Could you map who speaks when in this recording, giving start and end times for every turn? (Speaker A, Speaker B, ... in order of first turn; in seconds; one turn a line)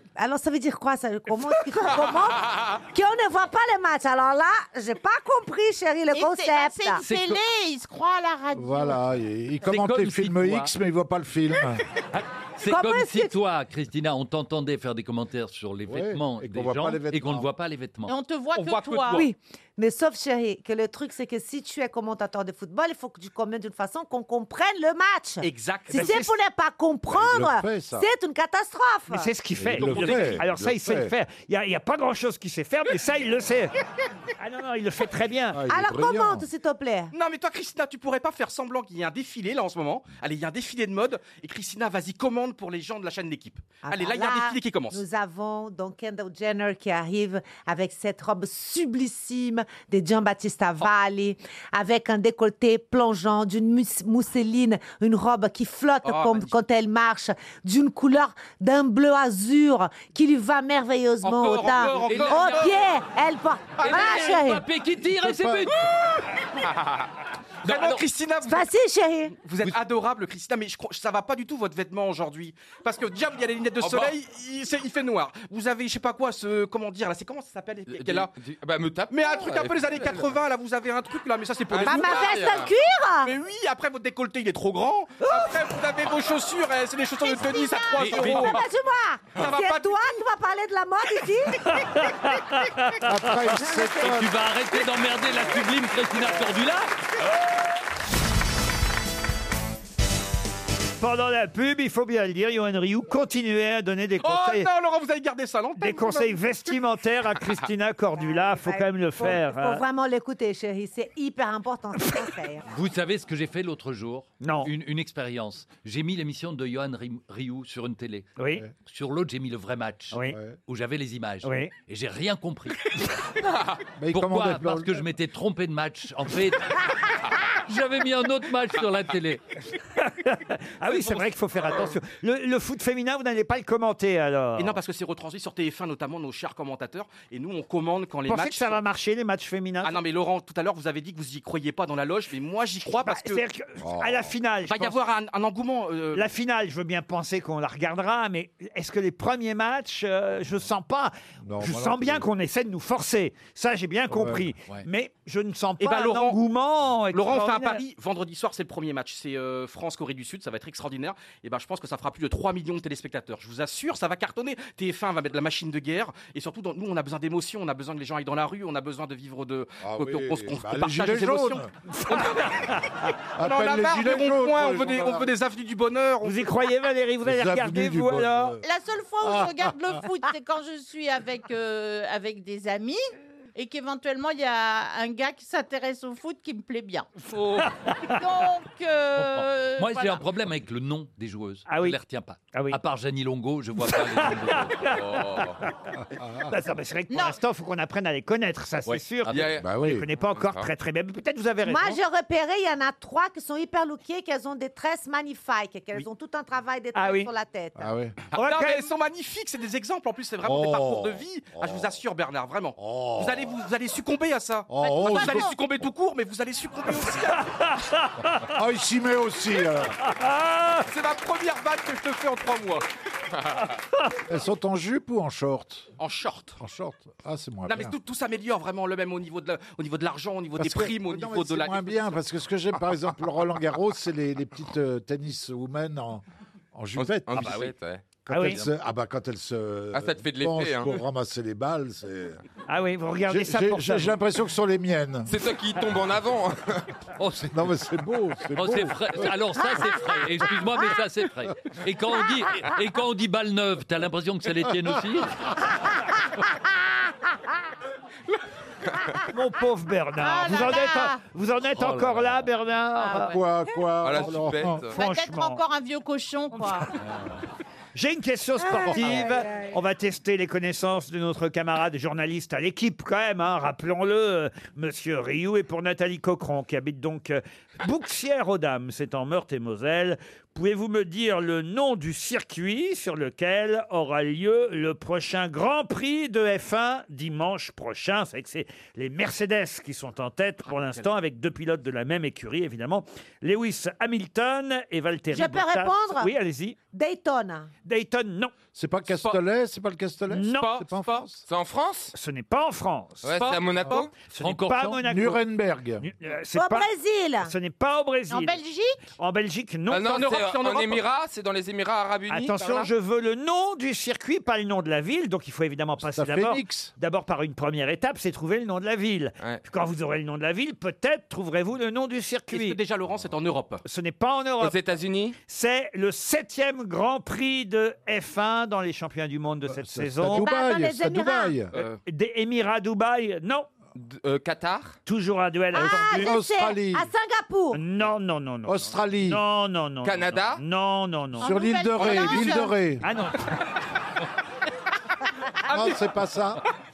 Speaker A: 0.1-7.0
Speaker B: 6.1-9.0
Speaker C: 7.0-7.4
Speaker D: 8.5-11.8
Speaker E: 9.6-10.7
Speaker E: 12.1-18.1
Speaker A: 12.6-13.4
Speaker D: 15.9-17.5
Speaker B: 18.1-19.2
Speaker C: 18.5-19.3
Speaker A: 19.1-29.3
Speaker C: 25.4-26.3
Speaker F: 25.9-26.3
Speaker D: 27.1-28.1
Speaker F: 29.1-33.7
Speaker D: 29.6-31.1
Speaker C: 29.8-30.4
Speaker F: 34.4-35.6
Speaker D: 35.5-36.5
Speaker A: 35.7-37.1
Speaker C: 37.1-45.0
Speaker A: 43.8-64.7
Speaker C: 56.0-56.5
Speaker C: 61.2-62.7
Speaker E: 61.8-63.0
Speaker C: 63.8-64.2
Speaker E: 63.8-65.9
Speaker D: 65.1-65.7
Speaker G: 66.6-67.0
Speaker C: 67.6-68.7
Speaker E: 67.6-68.0
Speaker A: 68.4-69.4
Speaker C: 69.3-78.3
Speaker G: 73.8-74.1
Speaker G: 77.9-80.3
Speaker C: 79.1-82.5
Speaker G: 81.7-82.7
Speaker A: 81.8-83.3
Speaker C: 83.2-88.6
Speaker B: 87.2-88.1
Speaker E: 88.0-88.6
Speaker A: 88.2-91.8
Speaker C: 89.4-90.0
Speaker F: 91.7-93.4
Speaker D: 93.0-94.3
Speaker A: 93.6-94.1
Speaker E: 94.0-96.9
Speaker F: 101.0-104.7
Speaker C: 104.2-106.4
Speaker F: 105.8-109.8
Speaker A: 108.2-112.6
Speaker E: 112.7-118.3
Speaker F: 114.4-114.7
Speaker F: 118.4-118.6
Speaker E: 118.9-123.0
Speaker F: 120.1-120.4
Speaker F: 121.4-121.7
Speaker G: 123.5-123.8
Speaker D: 124.0-124.9
Speaker E: 124.1-126.8
Speaker E: 127.7-129.4
Speaker F: 130.0-134.8
Speaker C: 134.6-138.8
Speaker F: 138.3-140.0
Speaker C: 139.8-143.4
Speaker F: 143.0-145.0
Speaker D: 143.8-144.3
Speaker C: 144.7-146.3
Speaker F: 146.1-157.8
Speaker D: 151.4-152.2
Speaker D: 154.1-154.5
Speaker C: 155.8-156.4
Speaker C: 157.1-172.5
Speaker D: 169.8-171.7
Speaker F: 172.0-172.8
Speaker D: 173.4-175.3
Speaker C: 173.4-176.4
Speaker F: 176.2-178.6
Speaker D: 177.2-178.6
Speaker B: 178.6-183.0
Speaker D: 179.2-179.8
Speaker B: 183.5-190.2
Speaker F: 187.6-188.2
Speaker E: 189.1-195.4
Speaker F: 191.7-192.0
Speaker F: 192.5-192.8
Speaker F: 193.9-194.9
Speaker G: 194.8-195.6
Speaker F: 196.5-202.0
Speaker B: 197.1-197.4
Speaker E: 198.9-199.6
Speaker G: 199.3-200.7
Speaker D: 199.6-200.1
Speaker A: 201.6-207.9
Speaker F: 206.9-207.3
Speaker D: 207.8-208.2
Speaker F: 208.3-208.9
Speaker C: 208.3-217.4
Speaker D: 210.4-211.9
Speaker D: 212.8-213.5
Speaker D: 214.7-215.5
Speaker B: 214.9-215.3
Speaker F: 217.4-218.5
Speaker D: 218.5-219.9
Speaker F: 220.0-220.9
Speaker C: 220.9-222.8
Speaker D: 224.3-225.9
Speaker C: 226.0-226.6
Speaker D: 226.6-227.9
Speaker C: 227.7-232.1
Speaker D: 230.6-237.7
Speaker G: 236.9-238.0
Speaker D: 238.2-242.4
Speaker F: 238.3-238.6
Speaker G: 239.9-240.9
Speaker F: 242.7-244.2
Speaker D: 243.3-245.3
Speaker G: 245.2-246.9
Speaker E: 247.2-247.5
Speaker D: 247.4-249.3
Speaker E: 248.5-255.5
Speaker F: 259.3-263.4
Speaker B: 260.2-261.2
Speaker E: 261.7-262.5
Speaker B: 263.0-263.4
Speaker D: 263.1-264.9
Speaker G: 264.0-265.0
Speaker B: 264.9-266.9
Speaker F: 264.9-265.6
Speaker F: 266.6-266.9
Speaker E: 267.0-267.4
Speaker F: 267.9-296.8
Speaker A: 268.6-269.7
Speaker C: 290.7-291.1
Speaker A: 295.3-296.3
Speaker A: 296.9-297.7
Speaker F: 297.9-298.5
Speaker D: 298.7-301.4
Speaker F: 300.3-300.8
Speaker C: 300.7-301.1
Speaker G: 301.4-302.1
Speaker F: 302.1-305.4
Speaker G: 303.2-304.1
Speaker C: 303.4-304.0
Speaker E: 304.4-305.0
Speaker D: 305.0-306.0
Speaker F: 306.0-306.9
Speaker A: 306.5-307.5
Speaker F: 307.4-308.6
Speaker B: 308.3-309.0
Speaker F: 309.1-310.3
Speaker G: 309.9-312.9
Speaker C: 310.0-311.0
Speaker F: 312.3-322.8
Speaker D: 316.0-316.9
Speaker C: 322.5-323.8
Speaker F: 323.9-324.8
Speaker G: 324.6-325.4
Speaker F: 325.4-330.5
Speaker D: 329.7-331.7
Speaker A: 330.3-331.7
Speaker F: 332.1-333.7
Speaker G: 333.9-335.0
Speaker F: 335.1-336.4
Speaker A: 335.7-337.8
Speaker D: 335.9-337.1
Speaker F: 337.7-341.5
Speaker D: 338.6-339.4
Speaker G: 340.0-340.6
Speaker B: 341.4-342.7
Speaker D: 341.4-343.0
Speaker C: 342.0-342.6
Speaker F: 343.0-343.6
Speaker C: 345.7-346.2
Speaker D: 345.7-346.6